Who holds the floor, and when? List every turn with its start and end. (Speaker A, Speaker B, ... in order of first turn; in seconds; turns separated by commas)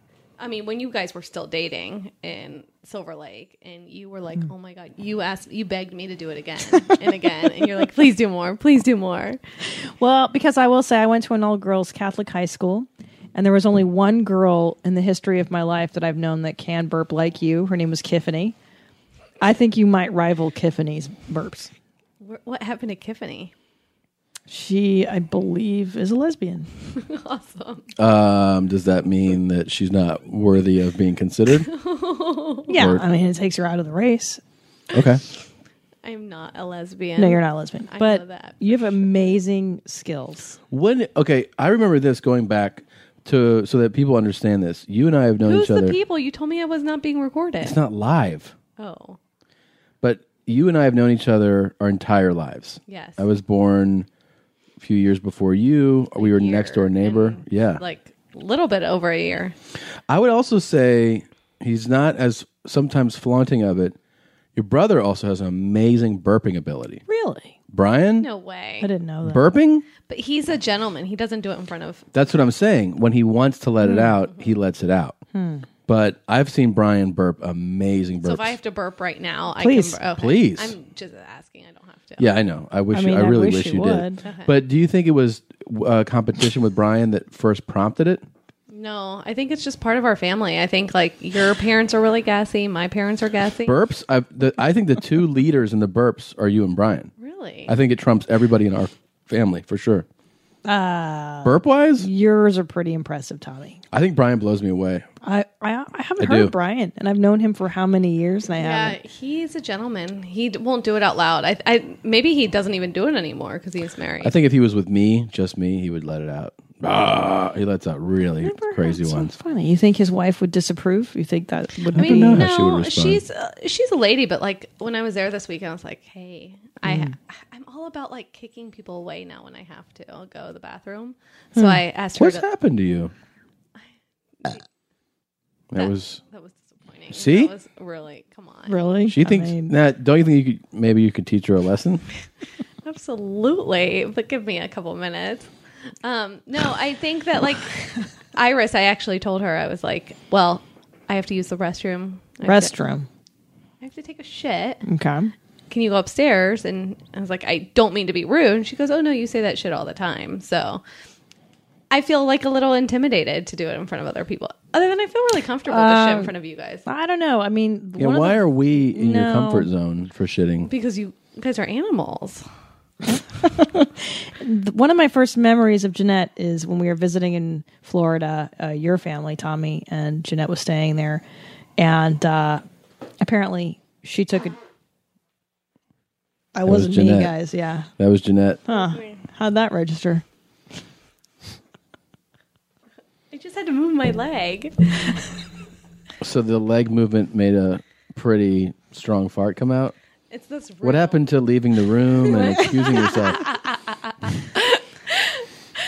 Speaker A: 0.4-9.4, Speaker B: 10.0-18.5, Speaker B: 19.4-21.7, Speaker A: 22.2-23.5, Speaker B: 24.5-26.7, Speaker A: 26.9-27.9, Speaker C: 28.0-31.7, Speaker A: 31.6-32.7, Speaker B: 32.7-34.4, Speaker C: 32.7-33.0, Speaker C: 34.9-35.2, Speaker A: 36.0-39.4, Speaker B: 37.2-40.6, Speaker C: 40.7-46.0, Speaker A: 45.4-47.8, Speaker C: 47.6-48.5, Speaker A: 48.8-49.2, Speaker C: 50.0-54.1, Speaker A: 52.9-53.3, Speaker C: 54.8-57.8, Speaker A: 56.1-59.5, Speaker C: 60.1-64.0, Speaker C: 64.5-67.0, Speaker B: 67.1-67.5, Speaker C: 67.7-68.3, Speaker A: 68.2-68.9, Speaker B: 68.8-69.5, Speaker C: 69.2-69.8, Speaker A: 70.1-72.0, Speaker C: 72.1-75.2, Speaker B: 73.8-74.1, Speaker A: 74.2-74.5, Speaker B: 75.3-75.7, Speaker C: 75.9-78.6, Speaker A: 78.2-82.3, Speaker B: 79.6-80.0, Speaker C: 80.2-80.7, Speaker C: 82.2-88.2, Speaker B: 82.9-84.2, Speaker A: 84.2-84.5, Speaker A: 88.7-93.8, Speaker C: 93.6-97.1, Speaker A: 97.2-97.7, Speaker C: 97.7-100.0, Speaker B: 100.7-103.8, Speaker C: 101.4-102.1, Speaker C: 103.9-105.0, Speaker B: 105.2-109.0, Speaker C: 106.2-106.5, Speaker A: 108.5-114.3, Speaker C: 114.2-119.3, Speaker B: 118.4-122.4, Speaker C: 121.9-123.2, Speaker A: 121.9-132.5, Speaker B: 126.8-127.1, Speaker C: 132.2-133.1, Speaker C: 135.7-136.2, Speaker A: 135.7-138.8, Speaker C: 137.1-137.5, Speaker B: 138.7-139.7, Speaker C: 139.1-142.0, Speaker A: 142.8-145.5, Speaker A: 146.0-152.7, Speaker B: 152.4-153.1, Speaker A: 153.8-154.8, Speaker B: 154.8-155.3, Speaker A: 155.7-160.8, Speaker A: 161.9-166.8, Speaker B: 165.7-166.3, Speaker B: 166.8-169.7, Speaker C: 168.0-170.7, Speaker A: 170.7-172.4, Speaker B: 173.1-181.2, Speaker B: 181.8-182.6, Speaker B: 183.2-184.6, Speaker B: 186.5-187.9, Speaker C: 186.7-187.3, Speaker C: 188.0-188.6, Speaker B: 188.7-190.2, Speaker A: 188.9-189.2, Speaker A: 193.3-195.1, Speaker C: 196.2-199.9, Speaker A: 200.3-201.2, Speaker C: 200.8-203.4, Speaker A: 202.3-205.4